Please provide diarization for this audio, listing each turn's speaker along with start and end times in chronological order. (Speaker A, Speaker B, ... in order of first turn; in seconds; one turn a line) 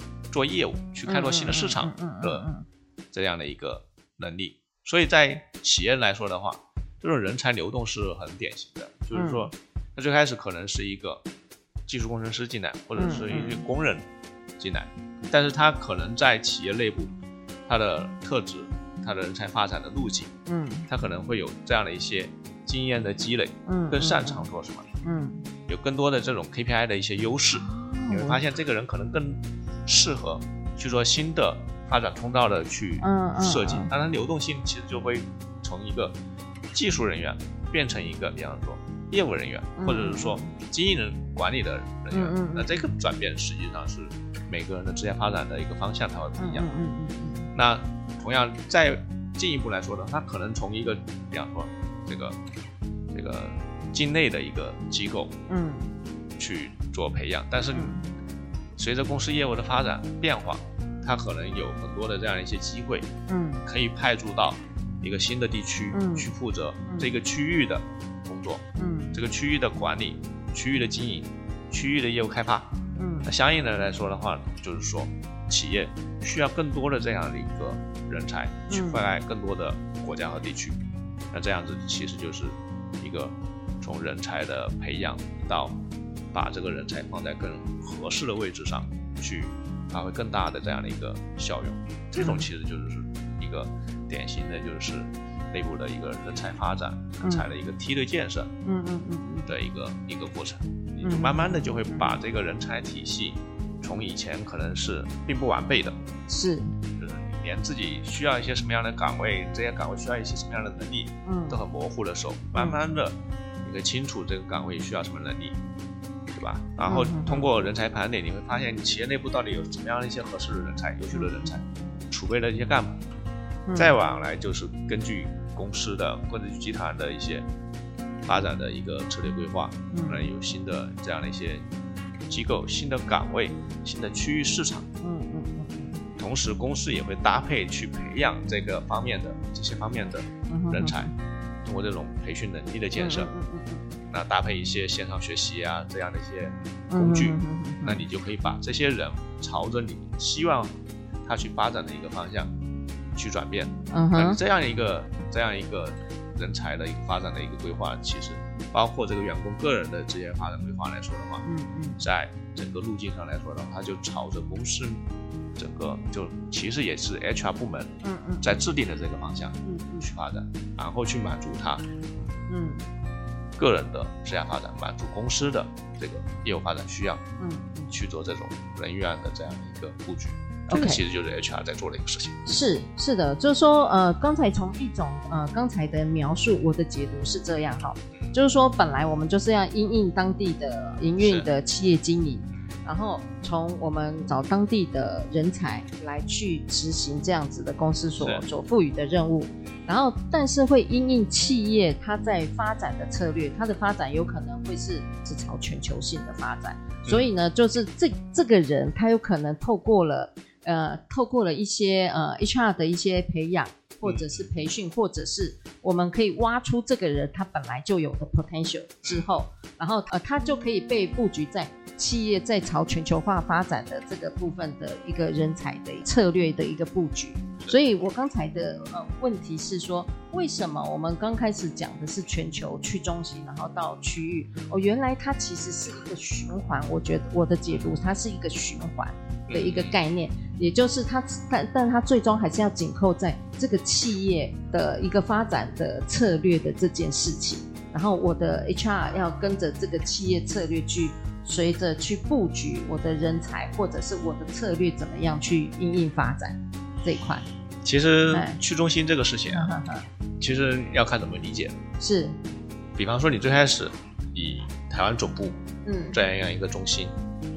Speaker A: 0.3-2.5
Speaker B: 1.1-2.7
Speaker A: 3.1-11.2
Speaker B: 9.1-9.5
Speaker A: 11.9-14.1
Speaker B: 13.0-13.6
Speaker A: 14.6-17.1
Speaker A: 17.7-20.3
Speaker B: 20.5-20.9
Speaker A: 20.9-24.9
Speaker B: 23.7-24.5
Speaker B: 25.0-25.4
Speaker A: 25.7-36.2
Speaker B: 27.6-28.4
Speaker B: 33.0-33.9
Speaker A: 36.7-46.7
Speaker B: 39.8-40.5
Speaker B: 42.1-42.7
Speaker B: 46.4-47.5
Speaker A: 47.5-52.4
Speaker A: 53.1-55.4
Speaker B: 55.5-55.9
Speaker A: 56.4-58.0
Speaker B: 57.7-58.0
Speaker A: 58.8-63.1
Speaker B: 63.3-63.6
Speaker A: 63.6-72.7
Speaker B: 65.9-66.3
Speaker B: 66.9-67.1
Speaker B: 68.8-69.2
Speaker B: 73.0-73.3
Speaker A: 73.2-80.8
Speaker B: 78.7-79.1
Speaker A: 81.3-85.8
Speaker A: 86.3-98.5
Speaker B: 92.2-92.5
Speaker B: 97.2-97.5
Speaker B: 98.7-99.5
Speaker A: 99.5-106.0
Speaker B: 101.0-102.1
Speaker B: 106.3-106.7
Speaker A: 107.0-115.6
Speaker B: 111.3-111.6
Speaker A: 116.3-123.0
Speaker B: 116.9-117.5
Speaker B: 121.1-121.6
Speaker B: 123.7-123.9
Speaker A: 123.8-127.5
Speaker A: 128.2-131.7
Speaker B: 129.9-130.3
Speaker A: 132.3-134.9
Speaker B: 135.0-136.0
Speaker A: 136.2-141.1
Speaker B: 140.5-141.1
Speaker A: 141.7-143.3
Speaker B: 142.9-143.9
Speaker A: 144.1-150.7
Speaker B: 146.9-148.0
Speaker A: 151.2-152.5
Speaker A: 153.2-161.4
Speaker B: 153.9-154.4
Speaker B: 161.4-162.0
Speaker A: 162.0-165.0
Speaker A: 165.6-171.8
Speaker B: 168.0-168.6
Speaker B: 169.6-170.1
Speaker B: 172.5-172.8
Speaker A: 173.6-177.2
Speaker B: 177.4-177.9
Speaker A: 177.9-182.4
Speaker B: 180.7-181.0
Speaker B: 182.5-257.5
Speaker A: 191.2-191.5
Speaker A: 214.0-214.5
Speaker A: 239.5-240.0
Speaker A: 257.8-259.7
Speaker B: 258.3-258.6
Speaker B: 259.5-260.1
Speaker A: 260.4-261.8
Speaker B: 262.0-262.4
Speaker A: 263.0-265.6
Speaker B: 265.9-266.2
Speaker A: 266.1-267.2